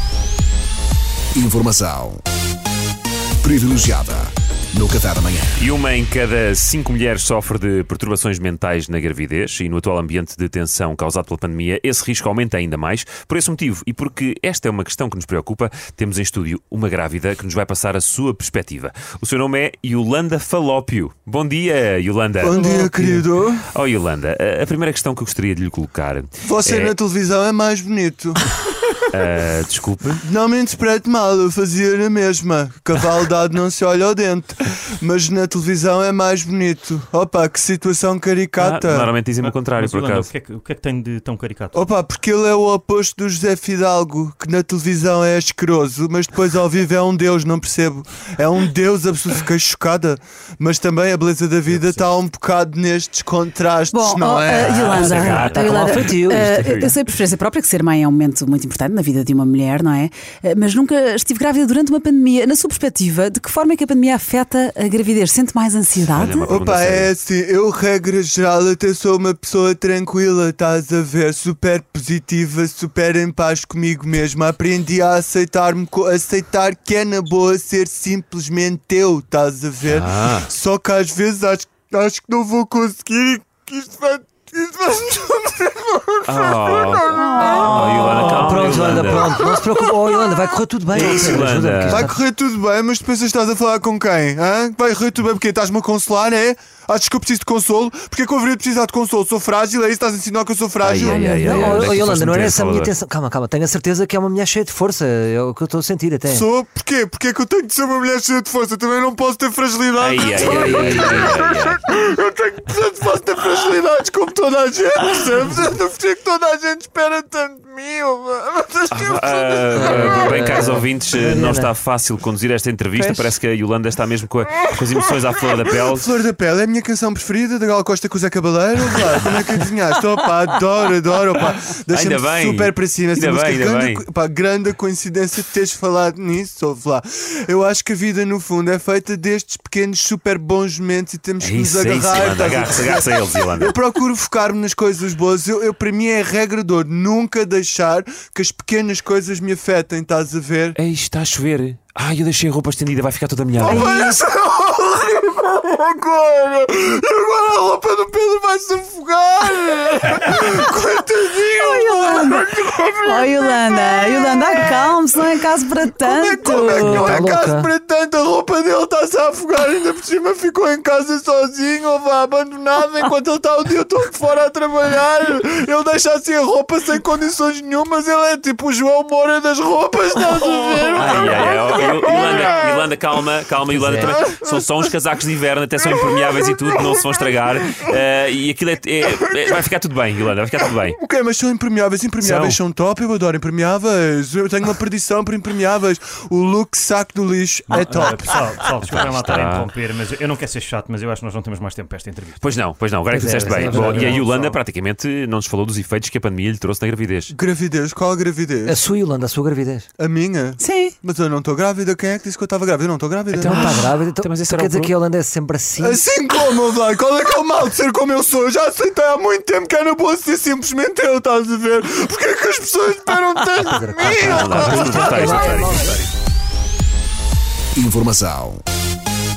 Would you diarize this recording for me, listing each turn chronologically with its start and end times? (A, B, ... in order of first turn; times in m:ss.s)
0:01.3-0:02.2 A
0:03.4-0:05.7 A
0:05.6-0:22.6 B
0:22.4-0:23.6 C
0:22.6-0:23.2 D
0:23.7-0:27.0 B
0:26.4-0:28.4 C
0:29.1-0:30.2 B
0:30.2-0:39.1 C
0:38.6-0:40.3 B
0:39.4-0:41.9 D
0:41.7-0:55.4 C
0:53.9-1:06.5 E
0:54.6-0:56.9 B
0:55.7-0:56.5 F
1:06.1-1:07.1 B
1:06.4-1:30.1 C
1:19.8-1:20.5 B
1:26.3-1:29.4 B
1:27.1-1:28.2 E
1:27.4-1:32.2 F
1:30.9-1:32.1 B
1:31.0-1:42.0 C
1:40.8-1:42.9 B
1:41.0-1:46.4 F
1:46.2-2:00.5 C
1:50.0-1:51.8 B
1:58.9-2:06.1 B
1:59.8-2:01.7 F
2:03.0-2:03.2 F
2:05.7-2:30.8 C
2:11.9-2:14.0 B
2:21.4-2:23.8 B
2:30.7-2:33.9 B
2:33.6-2:45.0 C
2:33.6-2:34.2 E
2:41.6-2:42.4 E
2:43.0-2:47.2 E
2:45.9-3:02.9 C
2:46.6-2:47.7 F
3:01.0-3:11.0 B
3:04.0-3:04.9 C
3:05.8-3:07.8 C
3:09.1-3:09.6 C
3:10.6-3:18.6 C
3:12.2-3:12.6 B
3:17.7-3:22.5 D
3:18.8-3:19.7 B
3:22.4-3:27.3 B
3:23.1-3:24.1 F
3:23.2-3:24.6 D
3:27.3-3:28.8 C
3:28.6-3:29.8 F
3:30.0-3:33.9 C
3:30.6-3:31.0 E
3:33.3-3:35.0 B
3:33.3-3:36.0 F
3:35.8-3:45.8 C
3:43.6-3:46.0 F
3:44.1-3:46.1 B
3:47.7-3:48.6 A